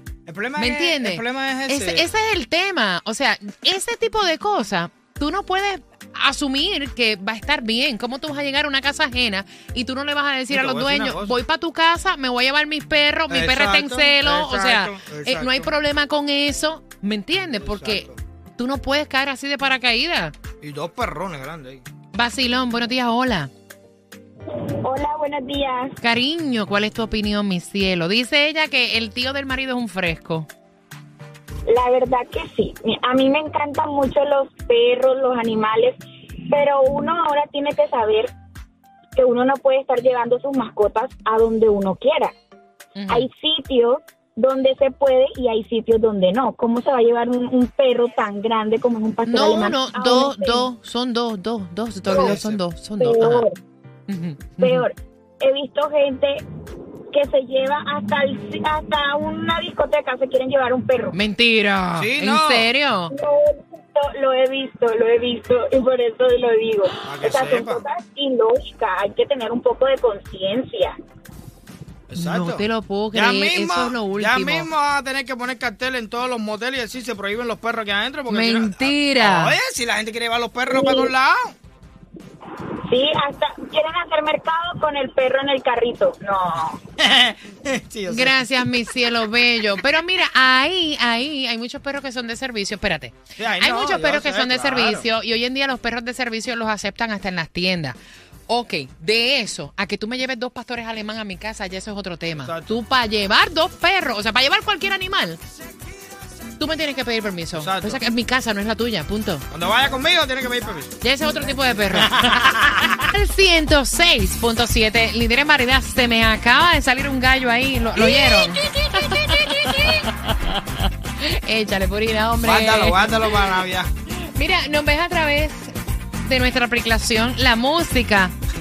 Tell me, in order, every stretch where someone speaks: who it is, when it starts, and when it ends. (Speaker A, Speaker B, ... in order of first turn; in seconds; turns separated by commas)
Speaker A: 0.3-2.1, Speaker B: 0.6-20.3, Speaker A: 10.5-11.4, Speaker A: 13.3-15.7, Speaker A: 17.6-18.2, Speaker A: 20.6-21.8, Speaker B: 22.1-23.5, Speaker C: 24.8-25.9, Speaker B: 26.0-30.5, Speaker C: 31.7-36.0, Speaker C: 36.5-38.3, Speaker C: 39.1-42.3, Speaker B: 43.0-43.3, Speaker C: 43.1-50.7, Speaker B: 49.3-53.5, Speaker A: 52.1-52.6, Speaker C: 53.0-53.6, Speaker B: 54.1-54.9, Speaker C: 54.6-56.4, Speaker C: 57.1-61.1, Speaker B: 61.1-63.1, Speaker A: 62.0-62.7, Speaker C: 63.1-71.0, Speaker A: 67.0-67.8, Speaker A: 72.1-81.5, Speaker B: 72.2-74.7, Speaker B: 78.3-79.5, Speaker C: 80.7-81.1, Speaker C: 82.9-86.8, Speaker A: 87.0-88.5, Speaker B: 88.1-98.0, Speaker A: 93.4-95.1, Speaker B: 98.5-105.4, Speaker A: 102.4-102.8, Speaker B: 106.6-109.5, Speaker A: 107.6-108.0, Speaker A: 109.5-111.0, Speaker B: 111.0-120.1, Speaker A: 112.0-112.9, Speaker A: 118.0-119.9, Speaker B: 121.2-123.5, Speaker A: 122.4-123.9, Speaker B: 124.2-128.3